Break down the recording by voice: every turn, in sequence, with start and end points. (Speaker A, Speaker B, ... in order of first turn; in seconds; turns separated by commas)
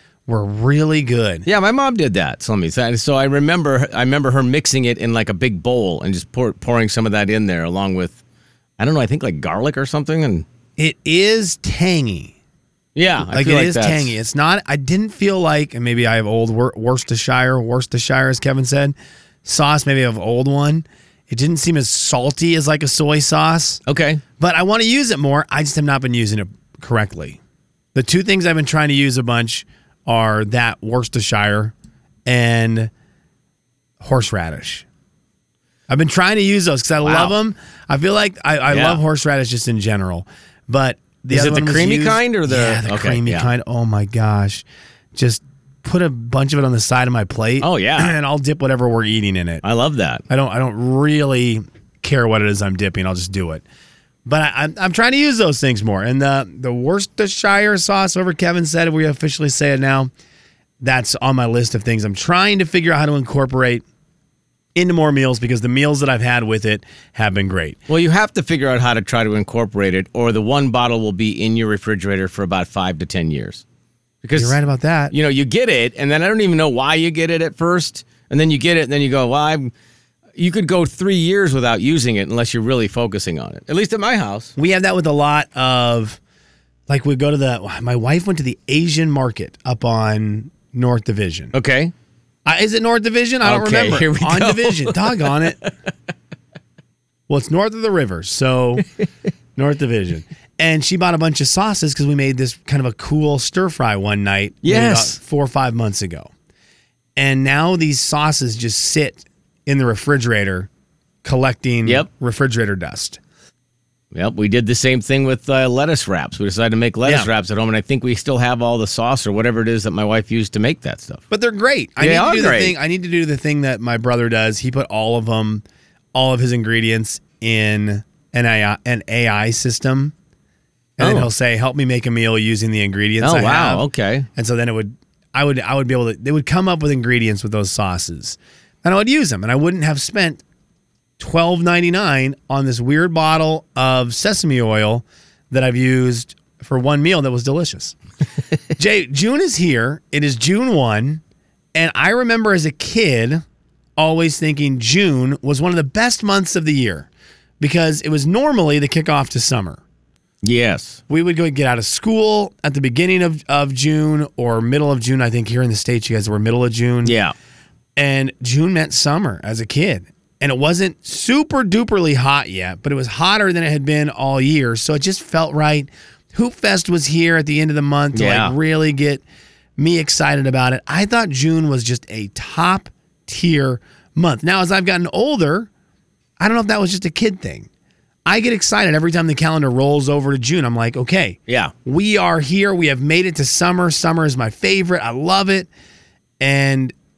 Speaker A: 0.3-1.5, Speaker B: 1.5-8.2, Speaker B: 8.8-10.5, Speaker A: 10.8-12.3, Speaker B: 12.9-14.1, Speaker A: 13.2-23.8, Speaker B: 23.9-24.2, Speaker A: 24.4-27.4, Speaker A: 27.9-31.7, Speaker A: 32.3-32.9, Speaker A: 34.0-34.9, Speaker A: 35.9-44.6, Speaker B: 37.0-37.4, Speaker B: 38.7-39.0, Speaker B: 41.3-43.5, Speaker A: 45.1-49.6, Speaker B: 47.6-48.1, Speaker B: 49.6-50.2, Speaker A: 50.3-53.6, Speaker A: 54.3-60.1, Speaker A: 60.8-63.8, Speaker A: 64.8-67.8, Speaker B: 67.9-73.6, Speaker B: 74.2-74.6, Speaker A: 74.3-75.1, Speaker B: 75.1-79.7, Speaker B: 80.4-84.5, Speaker A: 84.6-86.2, Speaker A: 86.9-91.5, Speaker B: 91.5-91.9, Speaker A: 92.5-95.6, Speaker B: 93.4-95.4, Speaker A: 97.3-98.9, Speaker A: 99.6-106.3, Speaker B: 104.6-105.2, Speaker A: 107.2-110.7, Speaker A: 111.2-113.2, Speaker B: 114.1-121.2, Speaker A: 121.3-130.1, Speaker B: 122.0-122.8, Speaker A: 131.0-140.4, Speaker B: 131.0-131.3, Speaker B: 133.2-134.3, Speaker A: 141.2-148.0, Speaker A: 148.8-151.2, Speaker A: 151.8-153.4, Speaker A: 154.0-157.1, Speaker A: 157.6-159.8, Speaker B: 160.4-161.0, Speaker A: 161.1-167.2, Speaker B: 167.0-167.3, Speaker A: 168.0-179.2, Speaker B: 178.1-178.6, Speaker A: 179.8-185.7, Speaker A: 186.4-187.7, Speaker A: 188.3-195.7, Speaker B: 191.5-191.7, Speaker A: 196.4-196.9